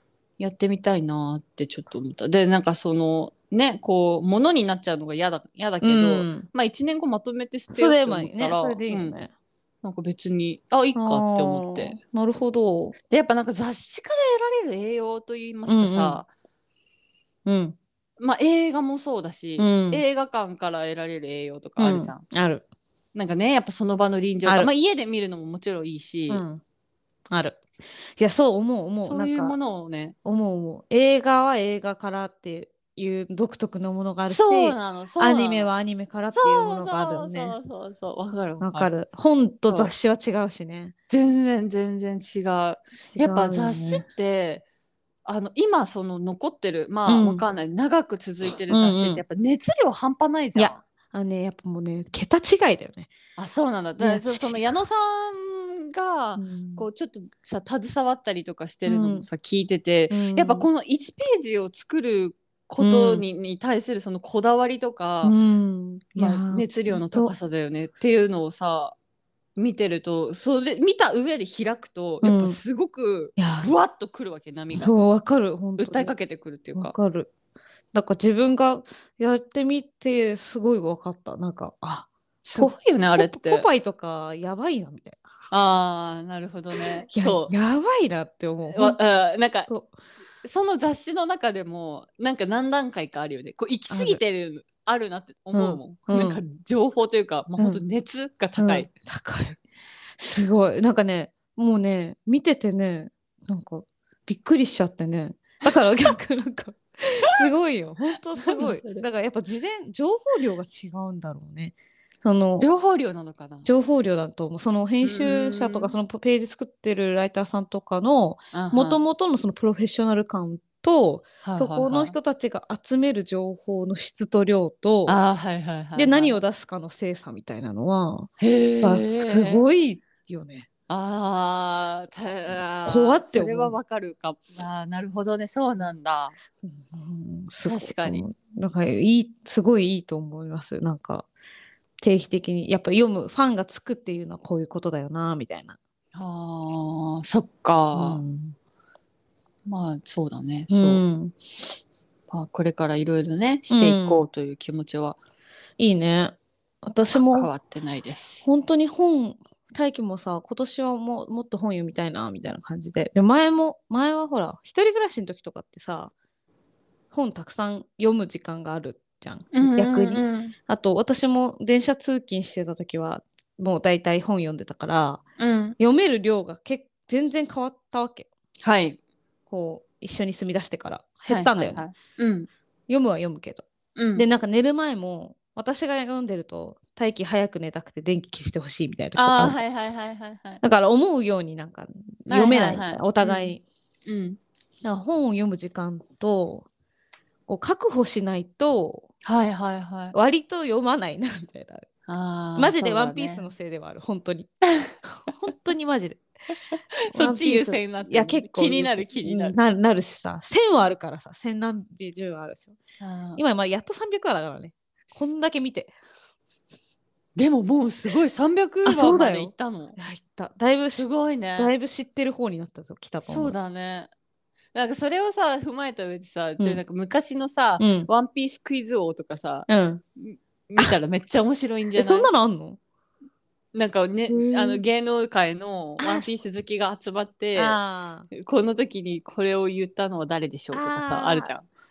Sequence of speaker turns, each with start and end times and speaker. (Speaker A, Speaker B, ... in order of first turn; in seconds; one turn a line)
Speaker A: 0.4-9.2
Speaker B: 5.8-6.5
Speaker B: 7.7-9.3
Speaker A: 9.8-12.0
Speaker B: 10.9-12.9
Speaker A: 13.1-16.3
Speaker B: 15.7-16.2
Speaker B: 17.5-17.8
Speaker A: 18.2-22.2
Speaker B: 19.6-20.0
Speaker B: 21.8-22.6
Speaker A: 23.1-26.4
Speaker B: 24.5-24.7
Speaker B: 26.3-26.6
Speaker B: 27.3-27.6
Speaker B: 28.2-29.6
Speaker A: 29.0-30.2
Speaker B: 30.2-37.6
Speaker A: 34.3-35.7
Speaker A: 36.3-38.9
Speaker B: 38.6-40.9
Speaker A: 39.7-39.9
Speaker A: 41.1-44.6
Speaker B: 43.0-44.0
Speaker A: 45.2-50.8
Speaker B: 47.1-47.4
Speaker B: 48.7-49.2
Speaker B: 50.5-53.1
Speaker A: 53.4-65.4
Speaker B: 54.0-54.8
Speaker B: 56.4-56.9
Speaker B: 58.9-59.3
Speaker B: 60.1-60.7
Speaker B: 62.8-63.2
Speaker B: 65.2-67.3
Speaker A: 66.2-69.0
Speaker A: 69.6-74.9
Speaker B: 72.2-72.6
Speaker B: 73.4-73.7
Speaker B: 74.7-76.2
Speaker A: 75.8-77.0
Speaker B: 76.8-77.3
Speaker B: 77.9-85.2
Speaker A: 82.4-83.7
Speaker A: 85.5-87.5
Speaker B: 86.8-89.0
Speaker A: 88.7-89.7
Speaker A: 90.4-98.9
Speaker B: 93.9-94.2
Speaker B: 95.5-96.4
Speaker B: 97.6-97.8
Speaker B: 98.6-99.6
Speaker B: 100.2-112.7
Speaker A: 108.4-109.1
Speaker A: 112.6-113.7
Speaker B: 113.7-125.2
Speaker A: 115.0-116.0
Speaker A: 118.5-119.0
Speaker A: 121.4-122.2
Speaker A: 125.1-126.4
Speaker B: 126.0-130.7
Speaker A: 128.4-129.6
Speaker A: 130.9-136.3
Speaker B: 132.8-133.8
Speaker B: 136.6-141.3
Speaker A: 137.6-138.2
Speaker B: 142.0-145.8
Speaker A: 146.2-148.2
Speaker B: 147.9-148.6
Speaker A: 149.7-151.0
Speaker B: 150.7-151.3
Speaker A: 152.3-155.2
Speaker B: 153.7-154.2
Speaker B: 155.8-157.5
Speaker A: 157.1-158.5
Speaker B: 158.4-166.1
Speaker B: 167.1-175.2
Speaker A: 169.5-170.5
Speaker A: 175.4-175.8
Speaker B: 175.8-178.3
Speaker A: 178.6-179.0
Speaker B: 179.5-181.8
Speaker A: 181.3-182.5
Speaker B: 182.9-183.7
Speaker A: 184.0-184.3
Speaker B: 184.2-189.6
Speaker A: 189.2-190.6
Speaker B: 190.6-193.6
Speaker A: 192.3-194.4
Speaker B: 194.8-196.7
Speaker B: 197.5-199.1
Speaker A: 199.2-200.2
Speaker B: 200.1-201.9
Speaker A: 202.1-203.5
Speaker B: 202.6-204.5
Speaker B: 205.1-206.2
Speaker A: 207.1-209.6
Speaker B: 207.1-212.8
Speaker A: 213.0-213.4
Speaker B: 213.4-215.9
Speaker A: 217.4-220.0
Speaker B: 218.8-223.6
Speaker A: 220.9-221.7
Speaker A: 223.2-224.1
Speaker A: 224.7-229.7
Speaker B: 227.8-228.1
Speaker B: 229.7-230.0
Speaker A: 230.2-232.3
Speaker B: 232.0-232.8
Speaker A: 233.7-237.8
Speaker B: 234.3-234.8
Speaker B: 236.0-236.3
Speaker B: 237.6-238.3
Speaker A: 238.3-241.7
Speaker B: 240.7-241.5